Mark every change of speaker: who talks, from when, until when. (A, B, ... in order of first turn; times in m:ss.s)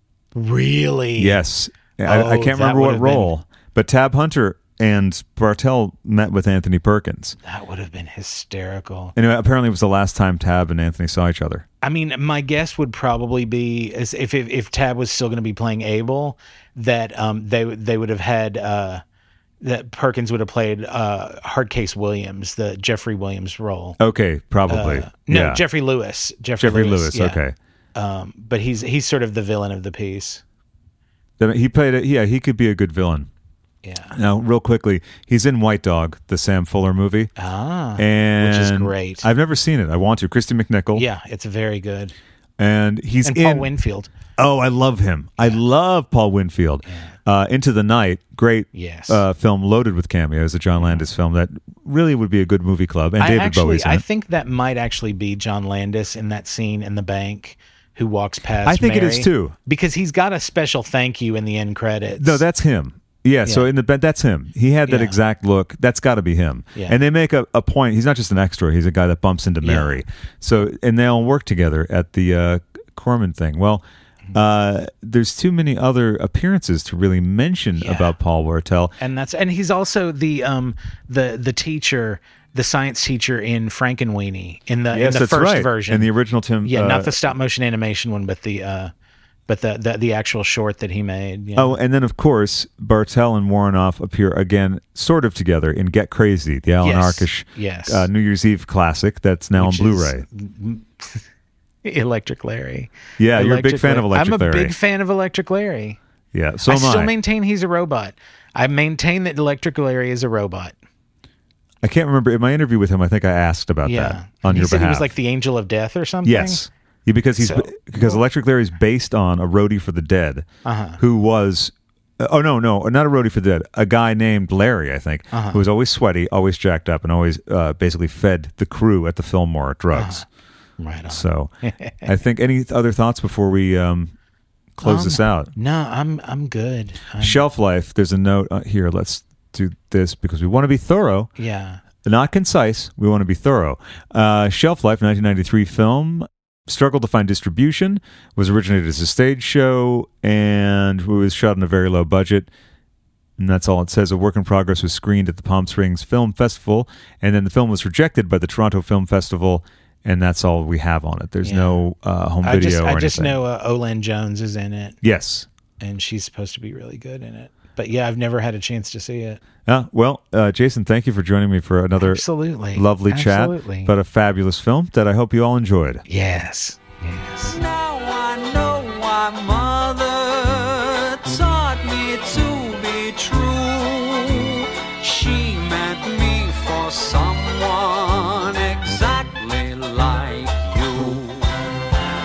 0:00.4-0:01.4 A
0:01.2-0:07.4 B
0:02.0-0:03.3 A
0:07.4-0:09.1 A
0:09.2-0:11.6 B
0:11.8-0:19.0 A
0:19.6-0:24.0 A
0:24.0-0:25.6 B
0:24.7-0:27.4 A
0:26.6-0:27.6 B
0:28.0-0:30.4 A
0:31.4-0:33.3 B
0:33.8-0:34.2 A
0:34.1-0:37.3 B
0:37.4-0:39.3 A
0:38.0-0:41.1 B
0:40.9-0:42.2 A
0:42.6-0:43.7 B
0:43.2-0:44.1 A
0:44.4-0:54.0 B
0:46.9-0:47.1 A
0:48.7-0:49.2 A
0:50.8-0:51.0 A
0:53.2-1:02.4 A
0:58.6-0:59.6 B
1:02.2-1:18.9 B
1:04.9-1:05.2 A
1:09.6-1:10.0 A
1:17.8-1:18.1 A
1:19.0-1:26.1 A
1:24.9-1:27.4 B
1:26.6-1:28.9 A
1:29.5-1:31.8 A
1:31.6-1:40.3 B
1:36.8-1:38.1 A
1:39.6-1:41.2 A
1:41.8-1:46.0 A
1:43.2-1:44.7 B
1:46.3-1:47.1 B
1:46.7-1:50.7 A
1:51.8-1:55.1 B
1:53.8-1:56.6 A
1:56.2-2:00.5 B
1:57.4-1:58.2 A
2:00.6-2:01.0 A
2:01.0-2:10.2 B
2:05.3-2:05.6 A
2:09.9-2:10.2 A
2:10.8-2:12.1 A
2:11.1-2:14.1 B
2:14.8-2:15.5 B
2:14.8-2:17.4 A
2:17.2-2:21.3 B
2:21.4-2:21.8 A
2:22.0-2:32.5 B
2:33.4-2:43.4 B
2:41.4-2:41.8 A
2:42.4-2:45.0 A
2:45.0-2:45.5 B
2:45.8-2:49.4 A
2:49.7-2:56.0 B
2:52.0-2:53.9 A
2:56.1-2:57.6 A
2:57.5-3:11.4 C